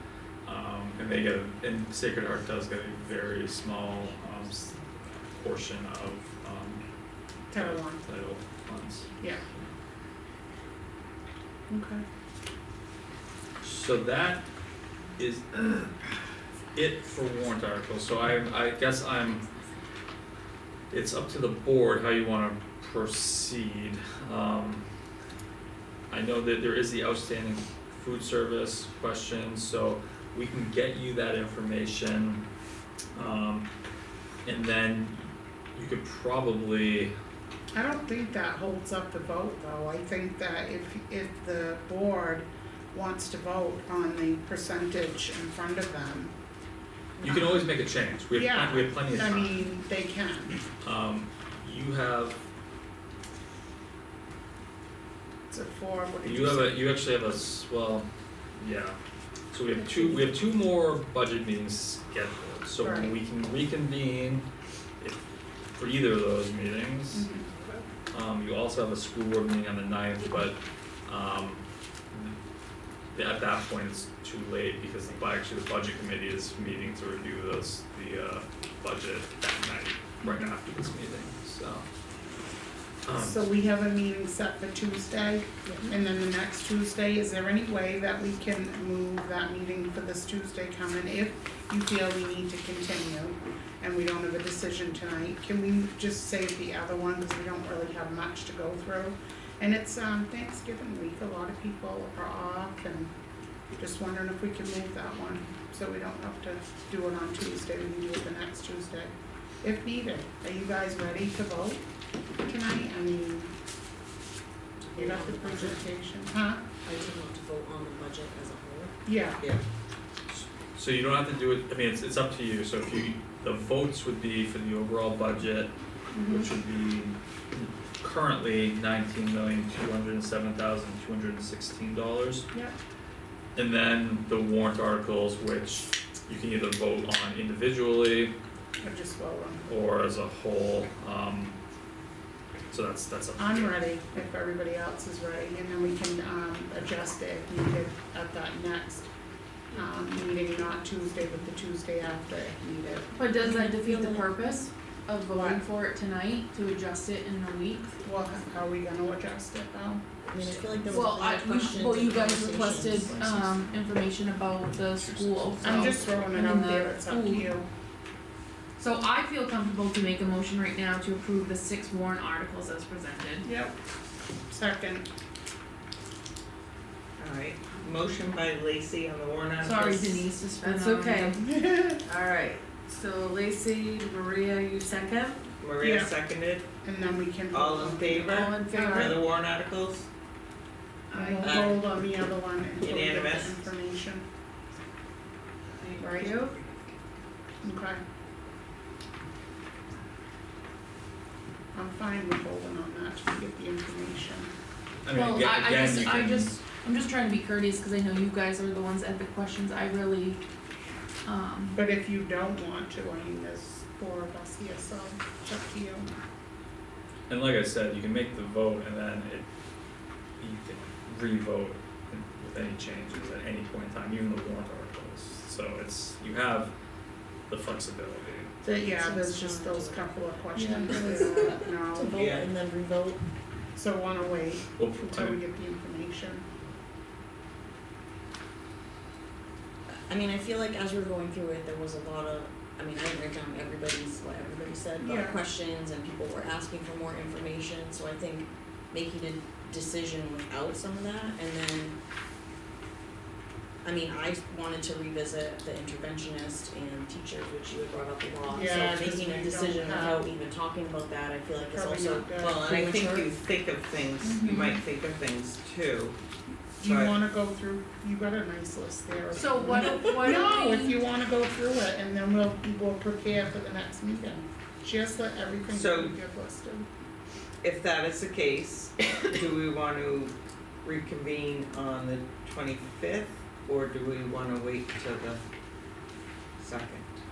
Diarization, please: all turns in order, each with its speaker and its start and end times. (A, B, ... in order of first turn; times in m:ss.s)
0:00.4-0:06.8 A
0:07.5-0:09.7 A
0:07.5-0:08.0 B
0:11.7-0:12.0 B
0:13.6-0:14.4 A
0:15.2-0:15.9 A
0:16.7-0:19.4 A
0:20.9-0:24.8 A
0:26.1-0:32.5 A
0:33.1-0:33.7 A
0:34.4-0:37.1 A
0:37.7-0:46.3 B
0:47.2-0:47.7 B
0:47.2-0:49.7 A
0:48.3-0:50.6 B
0:50.8-0:52.4 A
0:55.5-0:56.8 B
0:56.2-0:59.0 A
0:59.5-1:04.5 A
1:02.8-1:03.1 B
1:05.7-1:07.3 A
1:07.1-1:07.5 B
1:08.1-1:12.4 A
1:13.1-1:21.9 A
1:23.0-1:23.4 A
1:23.1-1:43.1 B
1:25.7-1:25.9 C
1:43.8-1:51.8 B
1:52.4-1:53.5 B
1:54.8-1:55.9 C
1:55.0-1:56.6 B
1:56.8-1:58.9 C
1:59.1-1:59.4 B
2:00.3-2:05.7 A
2:06.1-2:06.5 B
2:06.3-2:12.5 A
2:13.6-2:18.3 A
2:18.8-2:19.6 B
2:19.7-2:21.6 A
2:22.7-2:23.8 A
2:23.4-2:29.1 B
2:29.7-2:33.1 B
2:33.1-2:38.0 D
2:33.4-2:34.2 C
2:35.3-2:35.6 B
2:38.0-2:40.2 B
2:40.3-2:43.6 C
2:40.9-2:47.6 D
2:44.9-2:46.2 A
2:45.6-2:47.7 B
2:48.8-2:53.5 D
2:53.4-2:53.8 B
2:54.5-2:55.1 B
2:57.2-3:00.3 E
2:59.6-3:01.4 D
3:00.6-3:01.3 F
3:01.4-3:02.0 B
3:02.1-3:05.4 F
3:05.6-3:06.7 E
3:05.8-3:06.1 B
3:06.8-3:09.3 B
3:07.5-3:10.1 E
3:11.1-3:14.2 B
3:11.4-3:11.8 E
3:12.8-3:13.6 E
3:16.0-3:16.4 B
3:17.6-3:18.0 B
3:21.7-3:24.5 B
3:25.0-3:26.6 A
3:25.1-3:30.4 D
3:31.2-3:31.8 D
3:31.8-3:36.1 B
3:37.3-3:39.5 A
3:40.4-3:46.7 A
3:47.5-3:48.5 A
3:48.6-3:52.3 B
3:48.8-3:53.2 C
3:52.1-3:52.5 E
3:53.8-3:56.4 B
3:54.8-3:55.4 A
3:59.9-4:12.0 C
4:05.0-4:05.4 B
4:13.8-4:23.3 C
4:18.5-4:20.3 B
4:21.7-4:22.7 B
4:22.6-4:26.2 E
4:24.2-4:24.8 D
4:26.8-4:27.2 E
4:26.8-4:36.9 B
4:29.3-4:31.0 D
4:35.7-4:36.2 E
4:37.6-4:45.4 E
4:46.6-4:47.1 E